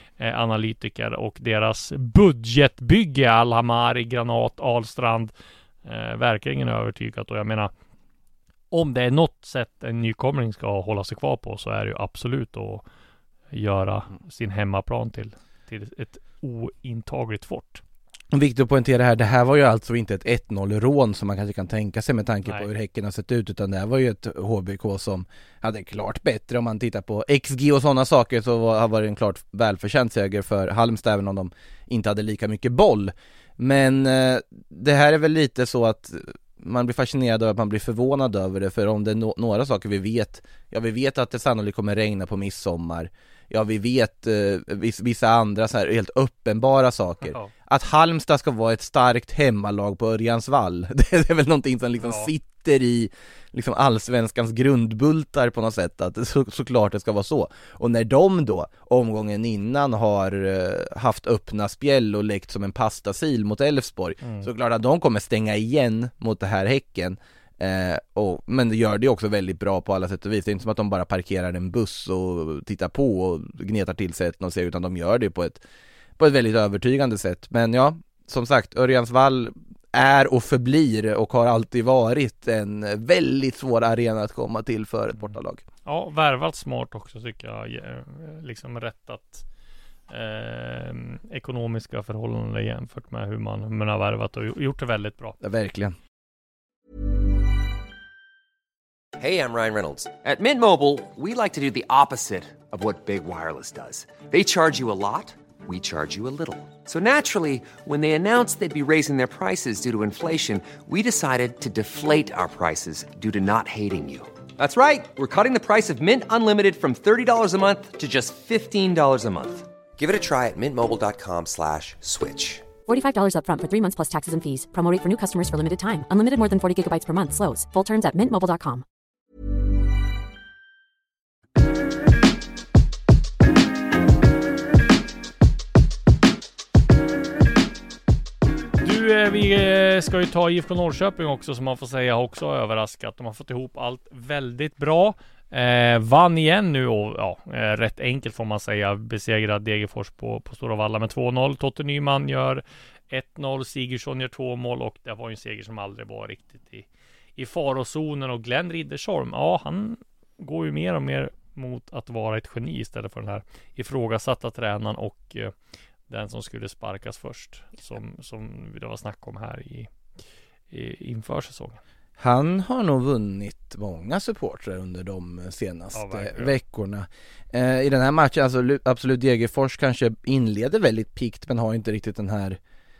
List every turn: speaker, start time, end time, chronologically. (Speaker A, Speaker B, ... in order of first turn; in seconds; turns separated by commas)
Speaker A: 0.2-5.3, Speaker A: 5.8-7.7, Speaker A: 8.7-12.8, Speaker A: 13.5-17.8, Speaker B: 18.3-75.6, Speaker A: 47.2-47.5, Speaker A: 52.0-52.3, Speaker A: 64.2-64.5, Speaker B: 76.2-85.6, Speaker A: 85.2-89.5, Speaker A: 90.1-95.4, Speaker B: 95.4-96.0, Speaker C: 99.2-122.7, Speaker D: 122.9-128.8, Speaker A: 138.8-165.5, Speaker A: 166.1-169.9, Speaker A: 170.7-171.8, Speaker B: 172.2-182.6, Speaker A: 175.9-176.6